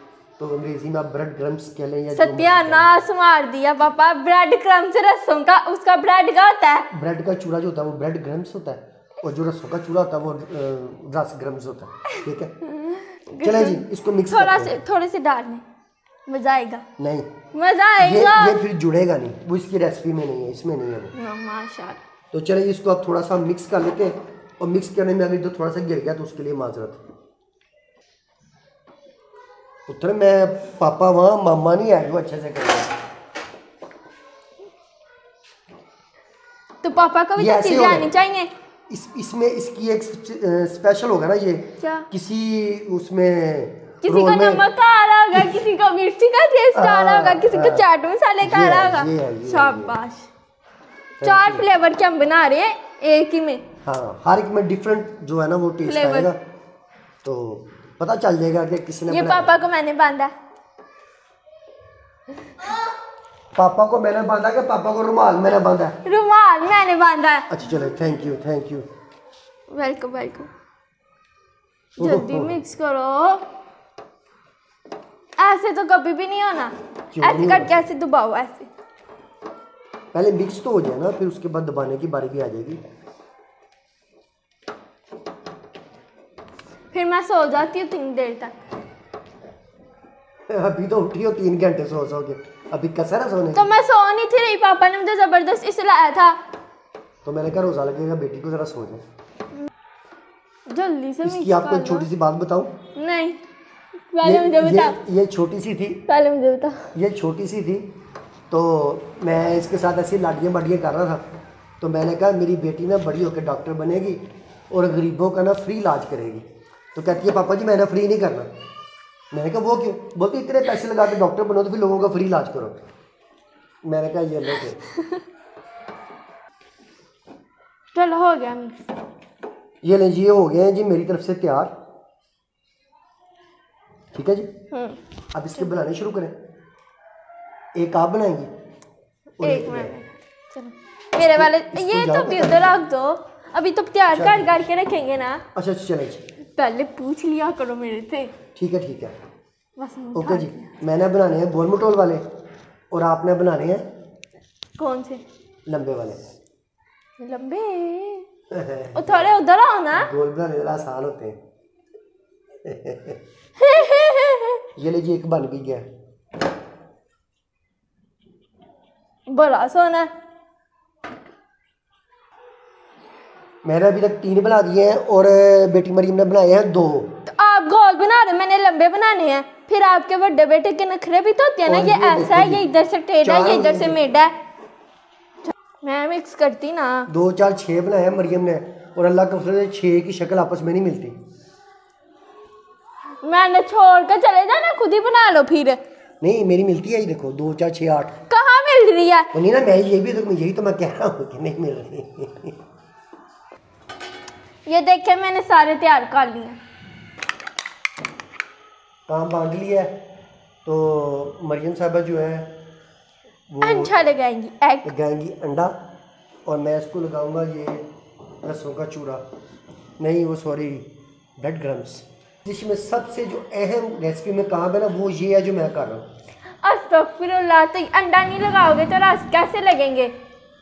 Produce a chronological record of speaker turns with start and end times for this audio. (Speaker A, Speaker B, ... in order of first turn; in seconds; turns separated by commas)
Speaker A: 0.4-2.9, Speaker B: 2.1-6.9, Speaker A: 6.9-12.5, Speaker B: 12.7-15.6, Speaker A: 13.4-14.7, Speaker B: 16.3-16.8, Speaker A: 17.0-17.3, Speaker B: 17.5-18.6, Speaker A: 18.0-21.1, Speaker B: 21.1-22.0, Speaker A: 22.3-27.0, Speaker A: 29.9-32.9, Speaker B: 36.8-38.5, Speaker A: 37.4-38.1, Speaker A: 38.9-44.6, Speaker B: 41.8-42.1, Speaker B: 44.0-50.3, Speaker A: 46.7-47.9, Speaker A: 48.4-50.0, Speaker A: 51.2-51.6, Speaker B: 51.2-53.6, Speaker A: 53.8-56.4, Speaker B: 55.9-56.3, Speaker A: 57.2-59.5, Speaker B: 59.1-60.3, Speaker A: 63.5-66.0, Speaker B: 66.0-67.5, Speaker A: 67.5-68.8, Speaker B: 69.7-70.5, Speaker A: 72.0-72.6, Speaker B: 72.0-73.4, Speaker B: 75.4-78.7, Speaker A: 77.1-77.8, Speaker A: 80.1-82.8, Speaker B: 86.9-88.5, Speaker A: 90.5-93.7, Speaker B: 93.5-96.4, Speaker A: 97.2-99.0, Speaker B: 100.7-102.1, Speaker A: 101.2-102.7, Speaker B: 102.9-103.4, Speaker B: 104.1-105.0, Speaker A: 104.2-106.0, Speaker B: 106.1-106.9, Speaker A: 106.9-107.9, Speaker A: 108.5-111.2, Speaker A: 111.8-118.5, Speaker A: 119.3-122.8, Speaker A: 123.8-124.8, Speaker B: 127.9-128.8, Speaker A: 129.8-131.7, Speaker A: 134.1-134.5, Speaker B: 134.7-135.0, Speaker A: 135.3-136.3, Speaker A: 137.7-138.5, Speaker A: 139.4-139.9, Speaker B: 139.4-145.4, Speaker A: 141.2-142.7, Speaker A: 144.1-144.5, Speaker A: 145.5-146.2, Speaker B: 146.6-148.3, Speaker A: 148.6-149.1, Speaker B: 149.8-150.7, Speaker A: 150.1-152.2, Speaker A: 152.9-153.8, Speaker B: 154.8-155.2, Speaker A: 155.7-156.2, Speaker B: 157.2-158.2, Speaker A: 158.5-159.3, Speaker B: 158.9-160.1, Speaker A: 159.9-161.4, Speaker A: 162.6-163.2, Speaker B: 163.6-164.6, Speaker A: 164.8-165.8, Speaker B: 169.3-170.1, Speaker A: 173.6-177.1, Speaker B: 177.2-184.3, Speaker A: 181.6-182.6, Speaker A: 183.2-184.0, Speaker B: 185.8-187.1, Speaker A: 187.1-191.1, Speaker B: 193.2-195.8, Speaker A: 196.2-198.2, Speaker B: 198.3-199.3, Speaker A: 199.3-202.5, Speaker B: 204.7-206.6, Speaker A: 209.1-209.9, Speaker A: 210.6-212.6, Speaker A: 213.5-213.9, Speaker B: 213.6-214.9, Speaker A: 214.8-215.8, Speaker A: 216.4-217.9, Speaker A: 218.4-219.2, Speaker A: 220.0-226.0, Speaker B: 226.6-230.1